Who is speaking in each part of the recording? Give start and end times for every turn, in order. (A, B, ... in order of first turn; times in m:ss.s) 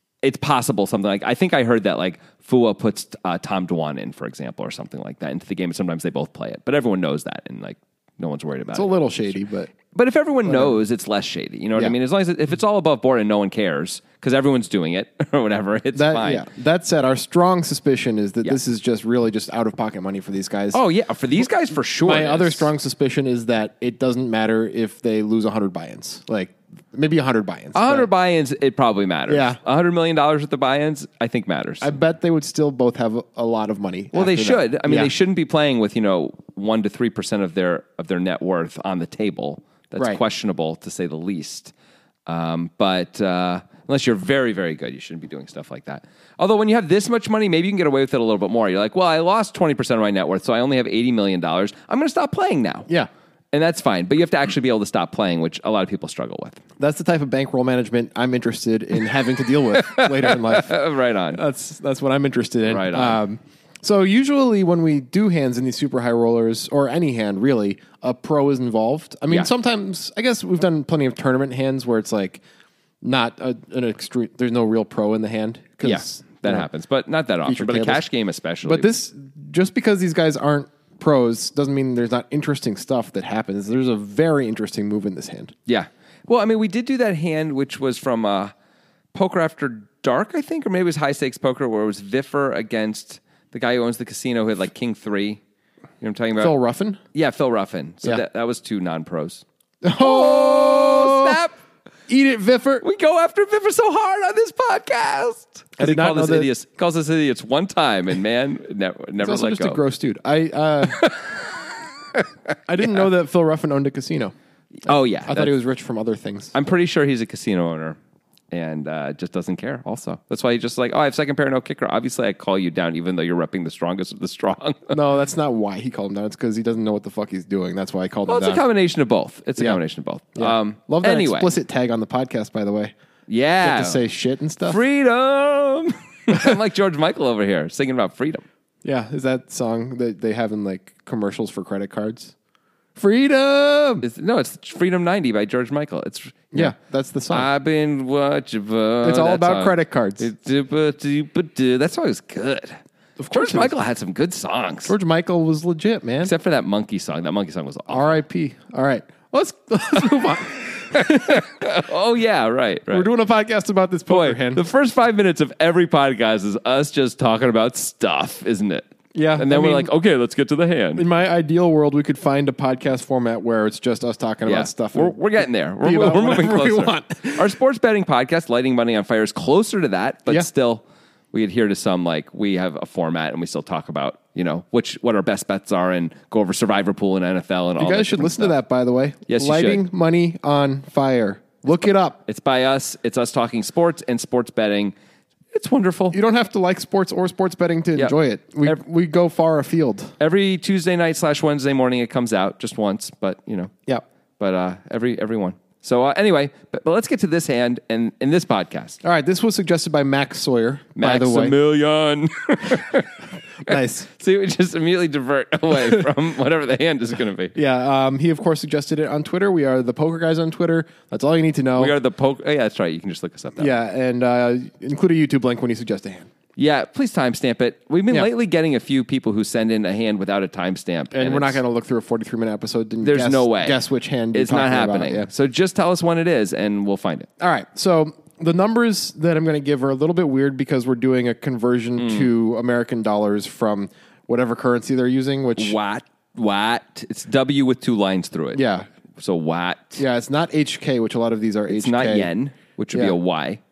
0:00.2-0:09.1 A
0:08.7-0:09.7 B
0:09.9-0:16.4 A
0:10.5-0:10.8 B
0:15.9-0:20.8 B
0:20.7-0:22.7 A
0:22.0-0:28.1 B
0:27.7-0:32.0 A
0:29.3-0:29.6 B
0:31.8-0:35.1 B
0:34.1-0:41.7 A
0:42.3-0:52.9 A
0:53.5-0:56.6 A
0:56.8-1:00.8 B
0:59.6-1:01.4 A
1:01.3-1:12.4 B
1:02.7-1:03.2 A
1:13.0-1:16.7 B
1:15.8-1:18.9 A
1:17.5-1:18.0 B
1:18.6-1:25.5 B
1:25.7-1:28.5 A
1:29.1-1:35.4 A
1:36.0-1:36.5 A
1:36.4-1:37.0 B
1:37.1-1:39.4 A
1:39.8-1:41.4 B
1:40.0-1:41.6 A
1:42.1-1:42.8 B
1:42.8-1:49.8 A
1:45.8-1:46.5 B
1:49.2-1:51.0 B
1:50.9-1:51.4 A
1:52.7-1:54.3 B
1:54.8-1:55.5 A
1:55.3-1:56.5 B
1:56.5-1:58.0 A
1:58.5-2:05.0 A
2:04.9-2:08.6 B
2:08.3-2:11.5 A
2:10.3-2:12.9 B
2:13.3-2:14.0 A
2:13.6-2:14.8 B
2:14.7-2:18.4 A
2:18.8-2:22.3 B
2:23.0-2:24.0 B
2:24.0-2:26.7 A
2:26.5-2:27.5 B
2:27.3-2:32.8 A
2:29.0-2:30.3 B
2:33.2-2:33.7 B
2:33.3-2:35.0 A
2:34.9-2:36.3 B
2:36.2-2:38.1 A
2:37.9-2:41.5 B
2:40.7-2:43.1 A
2:42.9-2:44.6 B
2:44.1-2:51.0 A
2:49.1-2:49.9 B
2:51.0-2:57.5 B
2:54.5-3:08.6 A
3:07.8-3:12.2 B
3:09.3-3:09.8 A
3:12.3-3:15.0 A
3:15.5-3:16.2 A
3:16.1-3:20.1 B
3:18.0-3:18.8 A
3:20.2-3:23.7 A
3:24.4-3:29.0 A
3:29.0-3:31.6 B
3:31.0-3:37.5 A
3:33.6-3:34.1 B
3:37.5-3:42.0 B
3:41.8-3:43.7 A
3:43.6-3:46.3 B
3:46.6-3:51.6 A
3:51.1-3:55.3 B
3:53.0-3:53.8 A
3:54.3-3:57.3 A
3:57.4-4:05.8 B
4:02.0-4:02.3 A
4:05.6-4:08.6 A
4:08.5-4:08.9 B
4:09.2-4:10.0 A
4:10.0-4:12.3 B
4:11.7-4:13.6 A